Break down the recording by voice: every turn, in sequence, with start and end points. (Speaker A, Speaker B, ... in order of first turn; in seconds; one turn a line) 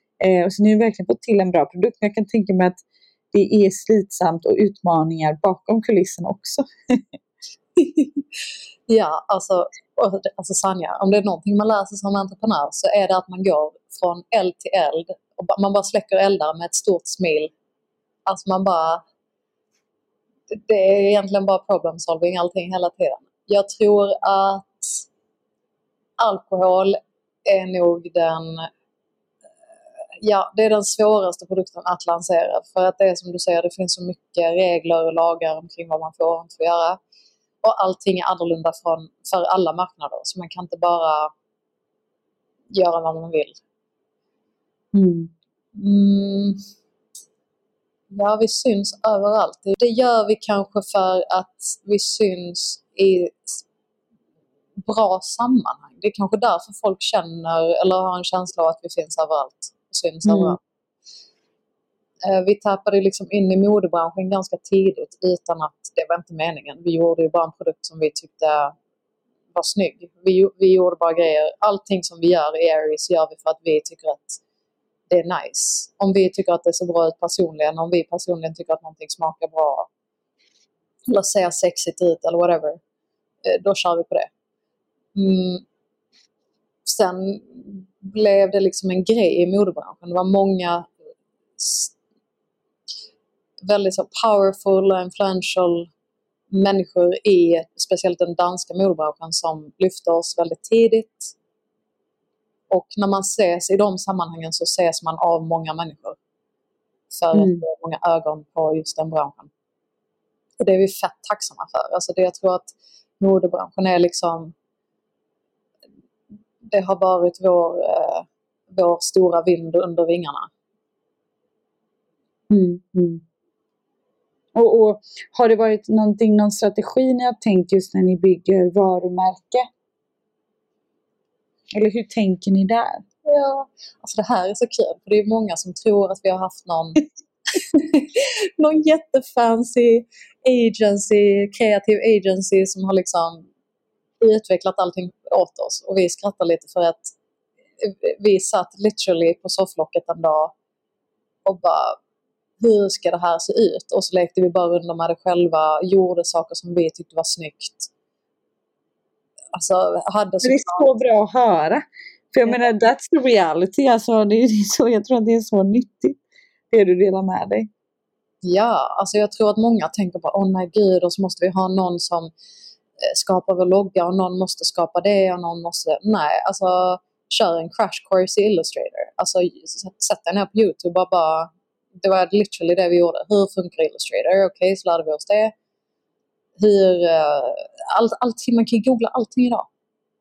Speaker A: 0.2-2.8
Speaker A: 3.3-7.0
Speaker B: 7.8-8.1
Speaker B: 8.9-17.5
Speaker B: 18.2-19.0
Speaker B: 20.5-25.0
Speaker B: 26.2-28.7
Speaker B: 30.2-37.0
Speaker B: 37.6-41.3
Speaker B: 42.7-43.6
Speaker A: 44.9-45.3
Speaker B: 45.7-46.6
Speaker B: 48.1-53.6
Speaker B: 54.8-60.6
Speaker A: 60.2-60.6
Speaker B: 62.2-68.7
Speaker B: 69.5-74.4
Speaker B: 75.1-79.9
Speaker B: 81.1-82.8
Speaker B: 83.4-84.3
Speaker B: 85.1-85.6
Speaker B: 86.8-90.9
Speaker B: 91.6-91.9
Speaker B: 93.7-95.9
Speaker B: 96.5-101.3
Speaker B: 102.7-106.2
Speaker B: 107.1-109.5
Speaker A: 107.3-107.6
Speaker B: 110.6-114.5
Speaker B: 116.6-120.5
Speaker A: 122.5-123.2
Speaker A: 124.5-129.7
Speaker A: 131.7-133.0
Speaker B: 133.2-137.0
Speaker B: 137.6-143.4
Speaker B: 144.2-147.1
Speaker B: 147.8-150.5
Speaker B: 151.4-152.0
Speaker B: 152.6-157.9
Speaker B: 159.5-160.9
Speaker A: 160.4-167.7
Speaker B: 168.4-172.3
Speaker B: 173.0-185.5
Speaker B: 186.6-189.7